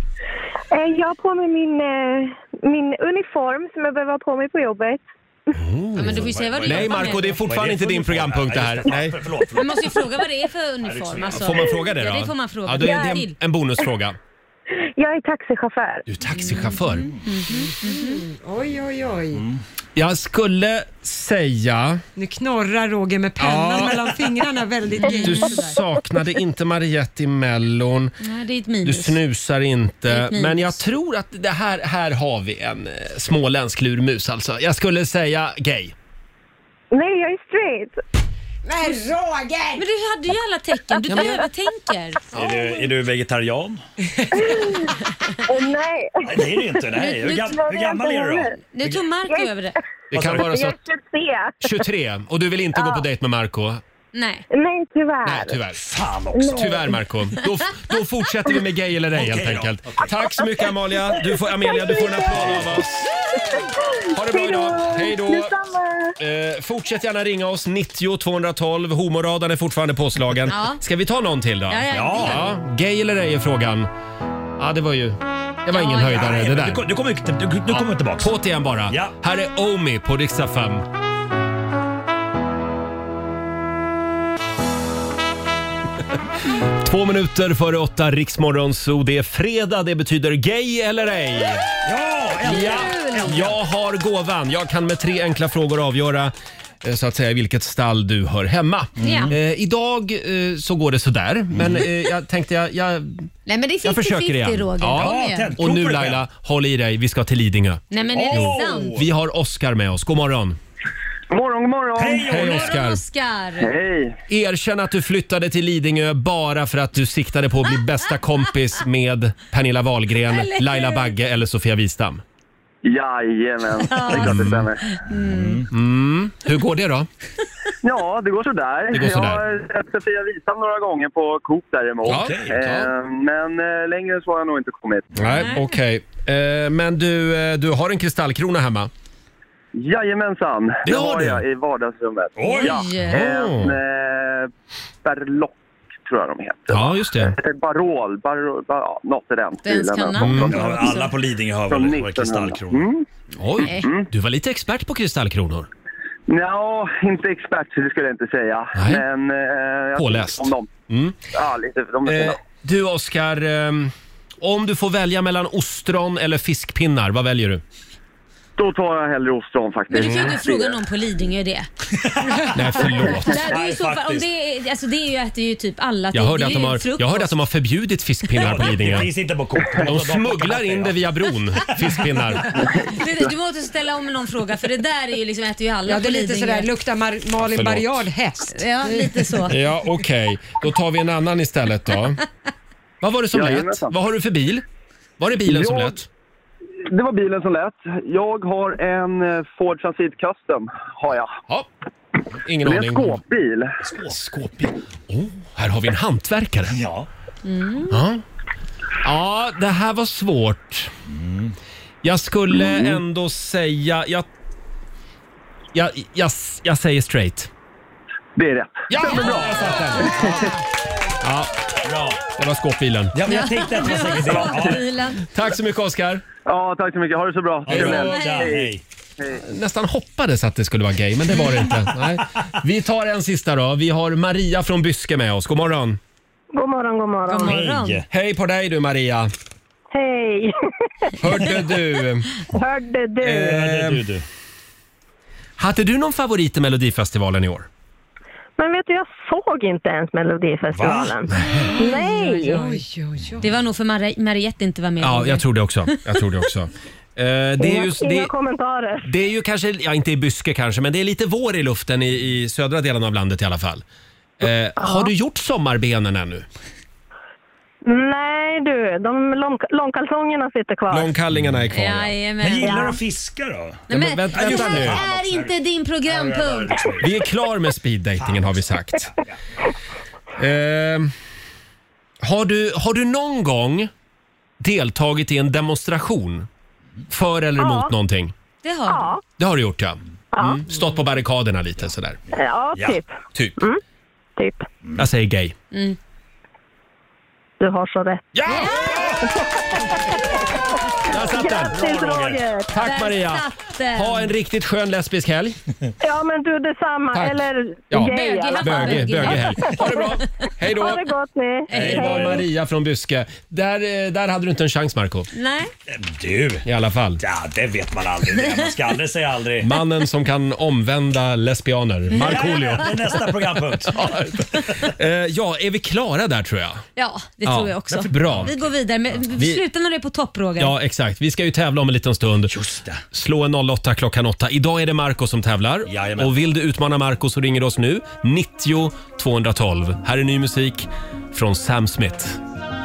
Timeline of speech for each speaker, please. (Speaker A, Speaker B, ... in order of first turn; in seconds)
Speaker A: 0.7-5.0, 15.0-16.0, 36.9-37.9, 45.5-46.5, 47.0-48.4, 50.6-51.5, 52.8-53.0, 54.6-55.5, 56.4-56.8, 61.7-62.0, 64.3-65.4, 236.5-237.6, 239.9-240.5, 242.5-243.6, 248.6-252.7, 257.6-259.1, 264.8-265.1, 267.8-271.1, 272.6-272.9, 287.6-287.9, 288.9-289.2, 290.3-290.7, 292.3-293.8, 294.4-294.7, 297.6-300.4, 301.1-302.7, 306.0-312.4
Speaker B: 5.5-9.1, 11.4-14.2, 16.1-17.1, 19.9-22.0, 23.4-24.1, 25.2-28.1, 28.8-35.9, 50.1-50.8, 51.6-53.8, 55.2-55.8, 56.5-63.1, 64.1-65.5, 66.2-73.9, 74.6-76.8, 77.7-80.8, 86.8-91.7, 92.4-103.3, 103.8-110.6, 112.3-113.0, 114.3-122.2, 124.1-124.7, 125.7-127.1, 128.9-129.4, 132.0-132.9, 135.1-138.9, 140.8-141.4, 143.0-143.7, 146.7-147.3, 150.2-150.6, 153.4-155.7, 158.8-159.0, 159.9-161.2, 162.1-167.6, 172.5-173.4, 176.1-179.1, 179.8-182.6, 187.4-188.0, 189.5-192.2, 193.0-194.6, 195.2-196.1, 202.4-203.2, 204.1-206.7, 207.9-208.2, 209.0-210.9, 212.0-214.3, 215.7-217.5, 218.9-220.4, 221.2-221.5, 222.3-223.2, 225.3-226.2, 227.7-228.1, 229.4-236.0, 238.1-239.3, 241.2-242.4, 243.2-244.0, 245.6-247.7, 255.0-258.3, 259.0-263.8, 264.4-266.4, 270.9-272.1, 273.9-275.0, 277.0-279.1, 280.4-281.1, 282.2-283.9, 284.6-286.5, 287.1-288.3, 289.4-292.2, 295.0-295.5, 298.3-298.7, 301.1-301.7, 302.7-305.6, 307.1-311.1, 311.7-315.3, 316.6-317.2, 319.6-323.1, 323.9-326.8, 327.4-328.6, 329.4-329.6, 330.6-332.5, 333.1-342.4
Speaker C: 6.0-7.4, 9.5-13.3, 16.4-18.2, 25.1-25.7, 28.2-29.2, 30.1-30.8, 39.8-42.2, 48.7-49.8, 54.1-54.4, 70.5-70.8, 71.7-72.4, 75.7-76.2, 92.5-93.4, 99.0-99.3, 103.5-105.5, 107.9-109.0, 112.3-113.7, 120.3-121.1, 123.8-125.6, 135.3-135.6, 142.4-143.2, 149.6-151.1, 153.6-153.9, 169.9-171.7, 173.1-177.3, 182.9-186.7, 188.5-189.6, 207.4-207.9, 223.3-225.2, 227.8-228.5, 237.3-238.0, 253.4-255.9, 271.7-272.9, 273.9-276.9, 288.6-289.1, 298.5-299.0, 302.7-304.3, 308.0-310.0, 311.7-312.2, 315.3-315.7, 326.9-330.7
Speaker D: 6.0-10.0, 10.8-11.7, 16.9-17.2, 19.3-19.6, 42.3-43.8, 46.2-49.0, 50.1-50.5, 55.7-56.7, 59.1-60.1, 62.3-62.8, 71.9-72.5, 76.0-78.3, 78.9-79.1, 91.8-93.6, 99.0-99.4, 101.5-101.8, 105.0-106.2, 108.1-109.1, 112.0-112.7, 125.1-125.7, 132.1-132.5, 142.3-142.8, 150.5-152.9, 172.0-174.3, 178.4-181.1, 203.8-204.2, 206.7-207.1, 211.1-211.5, 219.1-220.3, 221.8-222.2, 223.1-224.8, 227.7-228.8, 237.4-238.1, 243.3-244.2, 250.7-251.2, 272.4-275.5, 276.0-277.2, 278.2-279.3, 301.7-302.4, 311.7-312.4, 315.9-316.6, 317.2-319.7, 322.1-324.1, 327.9-328.5, 332.5-333.0, 335.9-336.4
Speaker E: 17.5-19.4, 22.1-25.6, 38.6-39.8, 185.8-189.5, 251.7-253.5
Speaker F: 111.3-112.4, 113.6-114.2, 122.8-124.8, 127.8-135.4, 139.7-144.5, 145.0-151.0, 151.7-153.0, 153.7-154.1, 156.3-160.7, 161.3-162.4, 168.6-170.8, 193.3-193.9, 195.4-196.0, 196.8-201.3, 202.6-203.7, 218.3-219.5, 220.2-220.5, 226.4-229.4